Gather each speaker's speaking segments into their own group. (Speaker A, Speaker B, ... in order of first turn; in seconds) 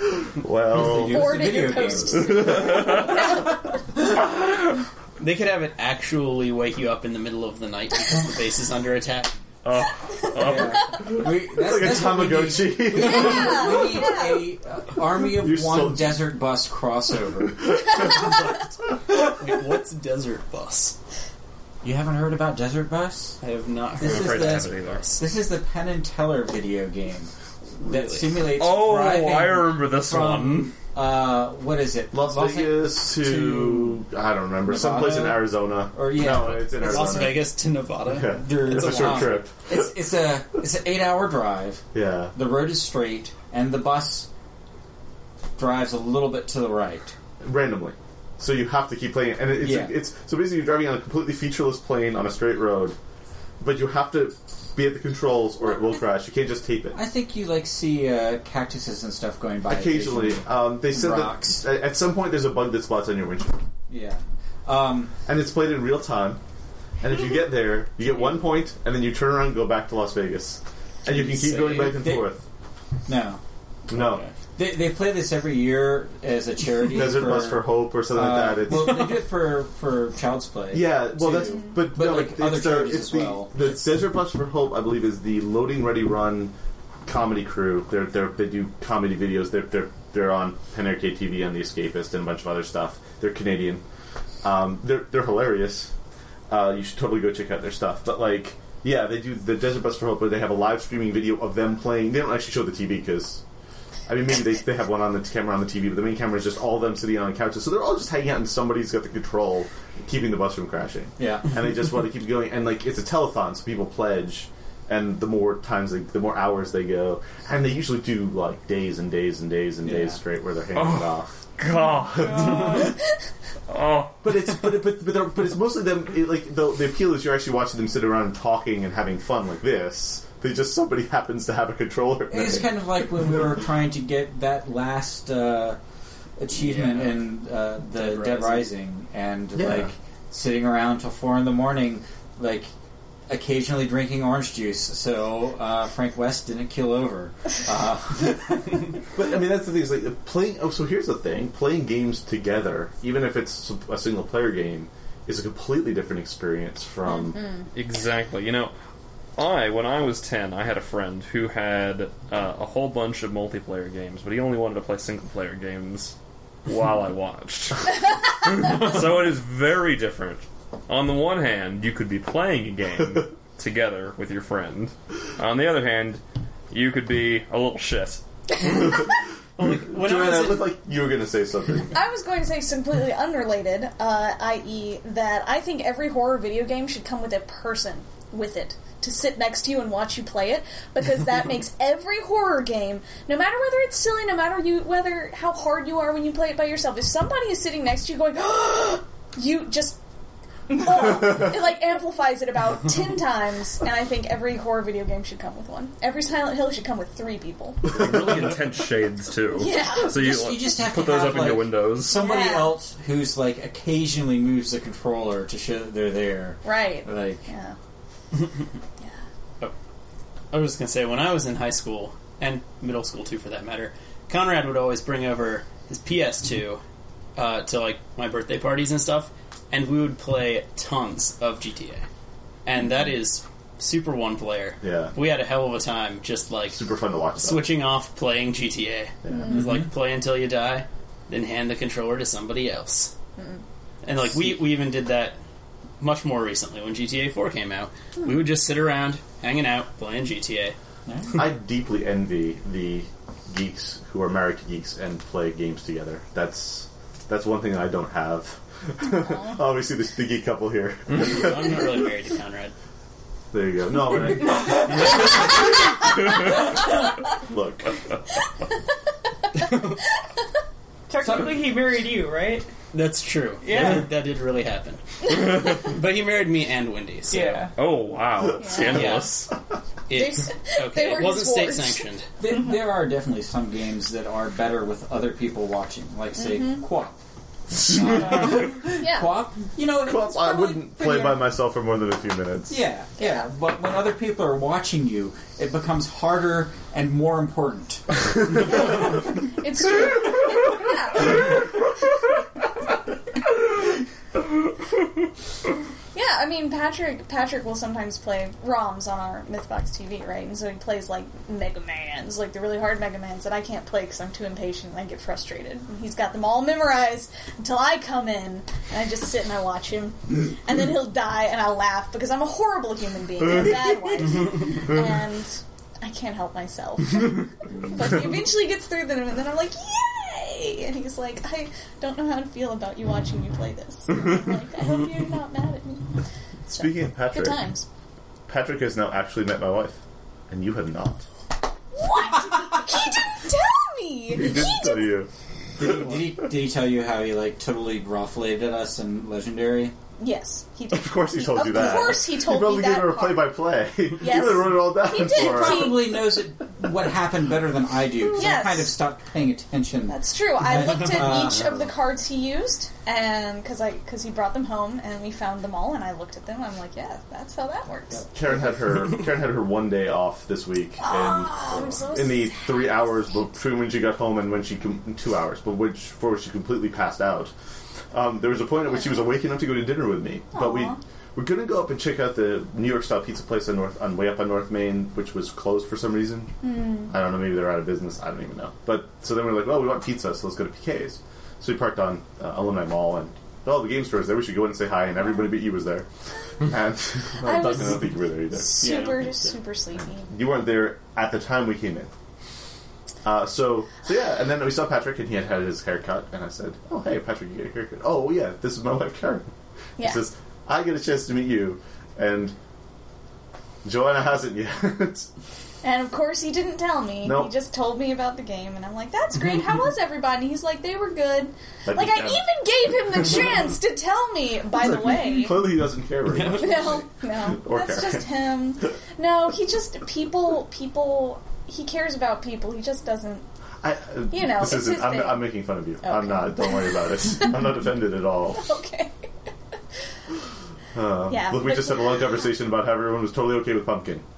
Speaker A: 0.2-1.6, 2.2-2.8, 11.0-13.8, 15.2-16.3, 32.1-37.5, 38.1-39.9, 41.9-42.3, 47.4-53.0, 53.6-57.0, 59.7-63.6, 65.3-66.4, 67.0-72.4, 73.9-74.2, 76.8-79.2, 80.7-86.5, 87.0-93.8, 94.4-95.9, 96.5-103.4, 104.1-121.6, 122.1-122.8, 124.2-132.8, 139.6-139.9, 149.1-157.5, 179.9-182.0, 234.8-235.1, 236.7-237.7, 239.2-239.6, 251.3-261.9, 263.5-266.1, 266.8-268.0, 287.9-288.2, 289.9-292.8, 336.7-337.7, 338.5-340.0, 340.5-341.2, 344.3-345.3, 345.8-346.2, 350.9-356.2, 368.3-377.5, 378.1-386.6, 387.1-396.1, 396.6-399.0, 400.3-402.1, 403.2-412.6, 413.8-415.3, 417.2-417.5, 421.9-422.4, 424.7-428.3, 433.8-438.7, 440.9-444.2
Speaker B: 0.7-3.0, 10.4-17.7, 21.8-23.4, 24.0-34.0, 34.6-37.3, 38.2-44.3, 45.6-47.1, 49.6-50.0, 56.9-61.6, 63.9-65.2, 71.1-72.3, 73.1-73.4, 74.6-83.8, 111.2-111.5, 119.8-120.2, 132.3-135.8, 136.4-142.7, 143.3-148.9, 210.0-217.4, 251.1-251.4, 282.4-287.2, 287.7-291.5, 292.7-298.1, 345.8-350.0, 355.2-361.8, 368.1-368.8
Speaker C: 0.8-3.4, 13.0-14.4, 81.5-81.7, 157.1-157.7, 181.9-200.0, 200.7-208.0, 209.5-210.2, 212.1-212.8, 216.6-217.8, 239.3-239.6, 243.4-243.6, 259.2-259.6, 278.6-279.2, 280.1-282.0, 286.4-286.8, 288.9-289.4, 293.2-293.4, 298.8-301.6, 306.1-336.2, 336.7-337.9, 341.9-345.2, 350.2-353.6, 354.1-356.1, 358.3-358.9, 360.1-368.2, 371.0-373.3, 380.5-381.0, 386.6-387.1, 397.4-400.3, 415.8-425.8, 426.4-433.4, 434.3-437.6, 438.6-439.2, 441.3-442.4
Speaker D: 5.2-9.4, 19.1-21.0, 23.4-25.2, 27.8-28.3, 36.8-39.3, 136.6-137.3, 137.9-138.7, 179.6-180.7, 220.5-226.8, 227.4-232.1, 232.7-236.8, 237.4-243.1, 244.0-245.4, 246.0-250.8, 261.1-262.7, 269.6-269.9, 272.9-277.7, 278.9-279.4, 280.1-282.3, 398.8-399.5, 426.3-426.7
Speaker E: 9.6-10.9, 24.0-25.0, 28.4-30.7, 120.8-123.0, 123.7-124.4, 157.7-158.7, 159.4-166.1, 166.7-178.2, 207.9-212.3, 277.8-279.5
Speaker F: 122.0-122.9, 271.1-272.7, 273.6-274.1, 277.3-277.8